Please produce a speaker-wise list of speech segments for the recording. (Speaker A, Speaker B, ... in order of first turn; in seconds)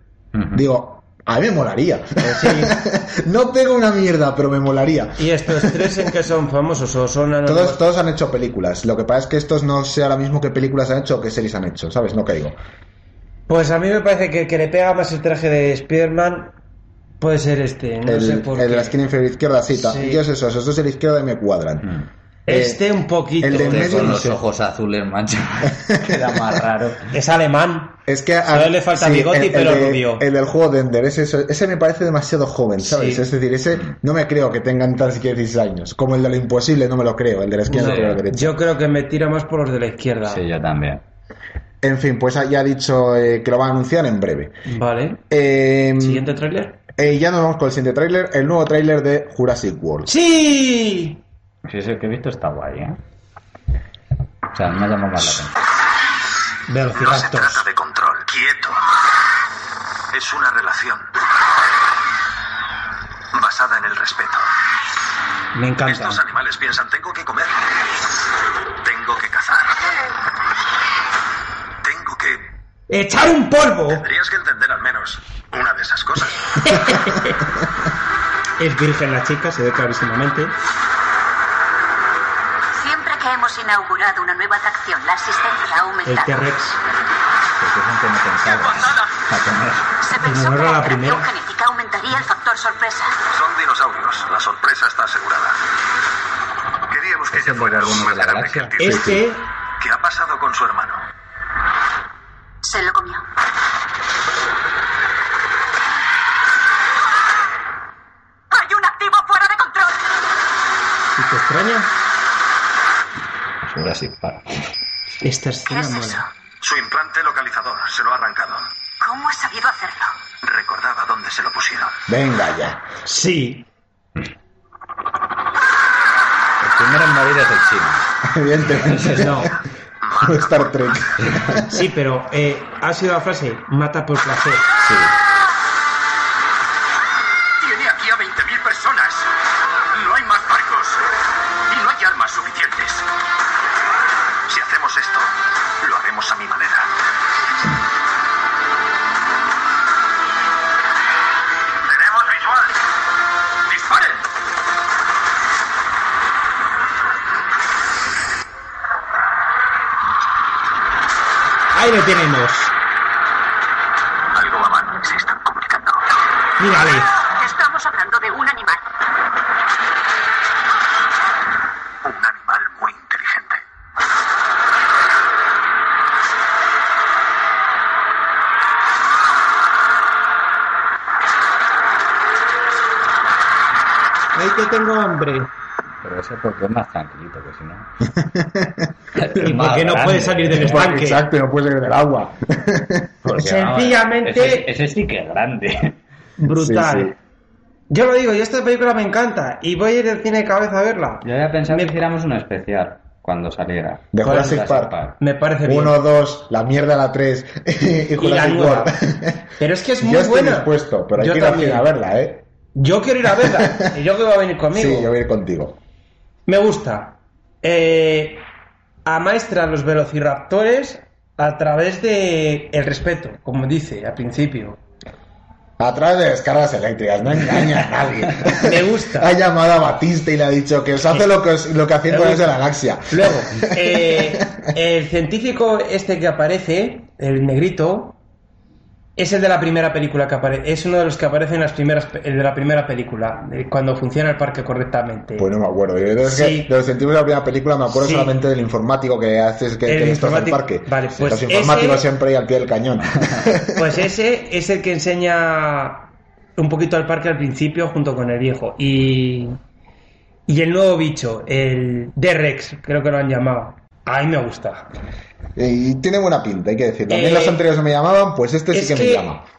Speaker A: 0.3-0.6, 23.5-27.1, 37.7-38.2, 40.3-41.0, 51.6-53.0, 54.5-55.6, 87.6-89.9, 97.3-99.1, 113.6-114.7, 126.6-128.1, 128.7-129.5, 131.2-131.5, 134.8-135.2, 186.0-187.9, 189.2-191.0, 193.2-196.0, 201.2-205.2
Speaker B: 0.5-6.1, 7.5-12.6, 18.1-22.0, 22.5-22.8, 23.4-24.4, 25.7-26.6, 28.1-38.6, 41.8-44.6, 45.3-46.3, 47.0-50.1, 98.9-99.2, 122.1-122.9, 128.2-129.5, 130.2-131.8, 188.2-188.9, 190.5-193.1, 196.5-197.2, 204.1-204.9, 205.6-209.5, 210.0-212.5, 213.3-214.0, 214.7-215.8, 225.8-234.6, 245.4-254.0, 265.6-269.4
Speaker C: 2.2-2.8, 5.2-7.8, 13.5-16.5, 17.2-19.0, 19.7-20.2, 22.5-24.4, 27.1-30.2, 32.8-33.2, 37.7-40.4, 44.7-45.2, 46.0-46.8, 50.1-51.2, 56.7-57.6, 65.5-66.2, 72.9-74.1, 76.6-77.4, 78.6-80.6, 86.0-86.8, 90.2-91.3, 98.8-99.5, 111.2-111.9, 115.2-116.2, 123.0-123.7, 129.2-129.5, 131.6-134.7, 161.7-162.7, 166.6-167.1, 184.3-185.5, 189.3-191.3, 193.4-194.7, 196.4-197.2, 197.9-201.9, 204.2-204.6, 205.2-206.0, 208.2-209.0, 209.6-211.9, 212.8-215.1, 216.5-218.4, 219.1-224.8, 228.5-229.3, 232.1-238.2, 239.2-245.5, 246.2-246.7, 247.9-248.3, 249.9-252.1, 253.7-259.6, 260.5-264.9, 267.1-267.6, 268.7-269.3
Speaker D: 56.9-58.8, 60.1-61.1, 63.3-64.5, 65.9-67.8, 68.8-69.8, 71.8-72.5, 73.9-76.8, 88.5-89.2, 93.3-95.6, 96.9-99.1, 99.8-101.0, 116.6-118.8, 120.4-122.0, 130.0-131.2, 137.6-139.3, 139.9-141.1, 141.7-143.1, 144.5-146.9, 151.8-152.8, 153.7-154.2, 164.3-166.1, 172.0-173.6
Speaker E: 82.8-86.4, 90.0-93.2, 102.6-103.2, 108.5-110.0, 115.7-116.3, 119.0-120.2, 167.2-168.9